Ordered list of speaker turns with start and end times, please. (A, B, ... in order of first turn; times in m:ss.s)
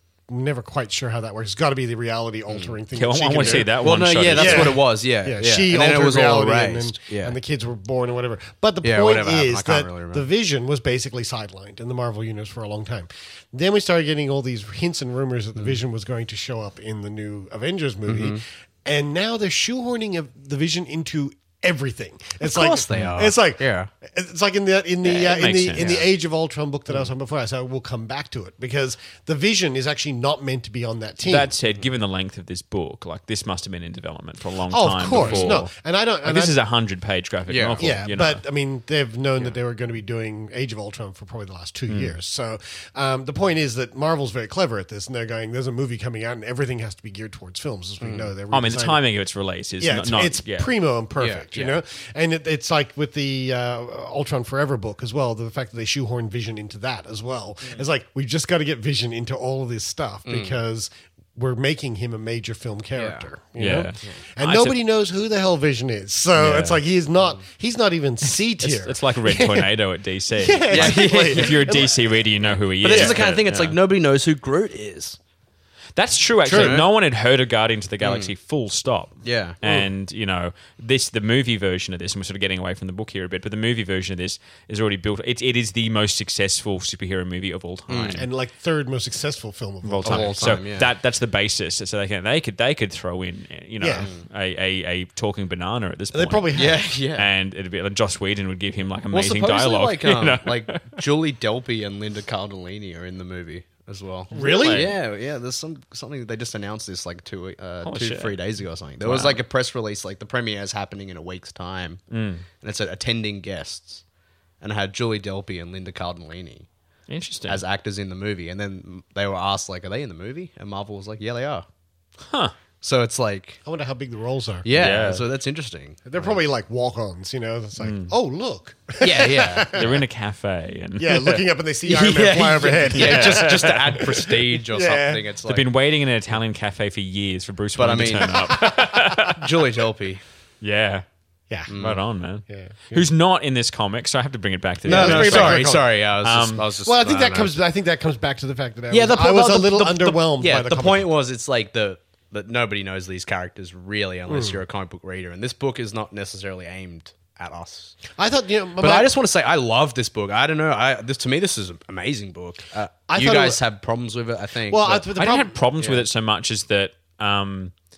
0:00.3-0:03.7 A
0:02.5-0:02.8 B
0:03.0-0:04.8 C
0:03.4-0:07.4 B
0:04.3-0:31.5 A
0:08.8-0:10.3 B
0:18.1-0:18.4 B
0:22.4-0:23.9 B
0:25.0-0:26.1 C
0:31.2-0:35.7 C
0:34.7-0:36.6 A
0:35.1-0:35.6 B
0:36.2-0:38.4 C
0:37.5-0:37.9 B
0:37.8-0:49.0 A
0:41.9-0:42.2 C
0:48.0-0:48.3 B
0:48.5-0:50.7 C
0:49.8-1:09.7 A
0:51.2-0:51.8 B
1:00.3-1:00.6 B
1:03.0-1:03.3 B
1:03.6-1:04.8 C
1:06.4-1:06.8 C
1:08.3-1:13.8 C
1:10.4-1:12.2 A
1:10.7-1:11.9 B
1:12.5-1:15.2 B
1:12.8-1:13.2 A
1:16.0-1:28.3 C
1:16.4-1:16.8 A
1:16.5-1:16.9 B
1:18.0-1:18.3 B
1:19.2-1:19.6 B
1:27.9-1:28.2 B
1:28.1-1:30.6 A
1:29.8-1:36.5 C
1:30.0-1:30.9 B
1:33.8-1:34.1 A
1:34.0-1:34.2 B
1:36.1-1:36.9 A
1:36.5-1:37.3 B
1:37.2-1:40.9 C
1:39.1-1:52.0 B
1:44.3-1:44.9 C
1:44.3-1:44.9 A
1:47.8-1:48.4 C
1:49.0-1:49.4 C
1:52.1-1:52.4 C
1:52.6-1:54.0 B
1:54.6-1:56.7 B
1:57.1-1:57.6 C
1:57.5-2:01.6 B
2:02.3-2:02.5 C
2:02.8-2:03.6 B
2:03.6-2:04.7 A
2:04.6-2:06.4 B
2:04.7-2:05.2 C
2:06.1-2:10.0 A
2:07.8-2:08.1 C
2:09.0-2:09.8 B
2:09.7-2:11.4 C
2:11.0-2:15.2 A
2:11.8-2:15.7 B
2:13.0-2:14.0 C
2:15.5-2:19.4 C
2:17.8-2:18.6 B
2:18.4-2:18.8 A
2:19.3-2:20.2 B
2:20.6-2:21.0 C
2:21.7-2:22.0 B
2:21.7-2:26.7 C
2:22.5-2:23.1 A
2:24.8-2:27.6 B
2:24.9-2:26.0 A
2:26.8-2:31.1 A
2:28.9-2:38.1 B
2:34.3-2:34.6 A
2:38.2-2:39.1 A
2:38.8-2:45.1 B
2:43.1-2:43.6 A
2:44.7-2:45.6 A
2:45.2-2:47.7 C
2:45.8-2:46.1 B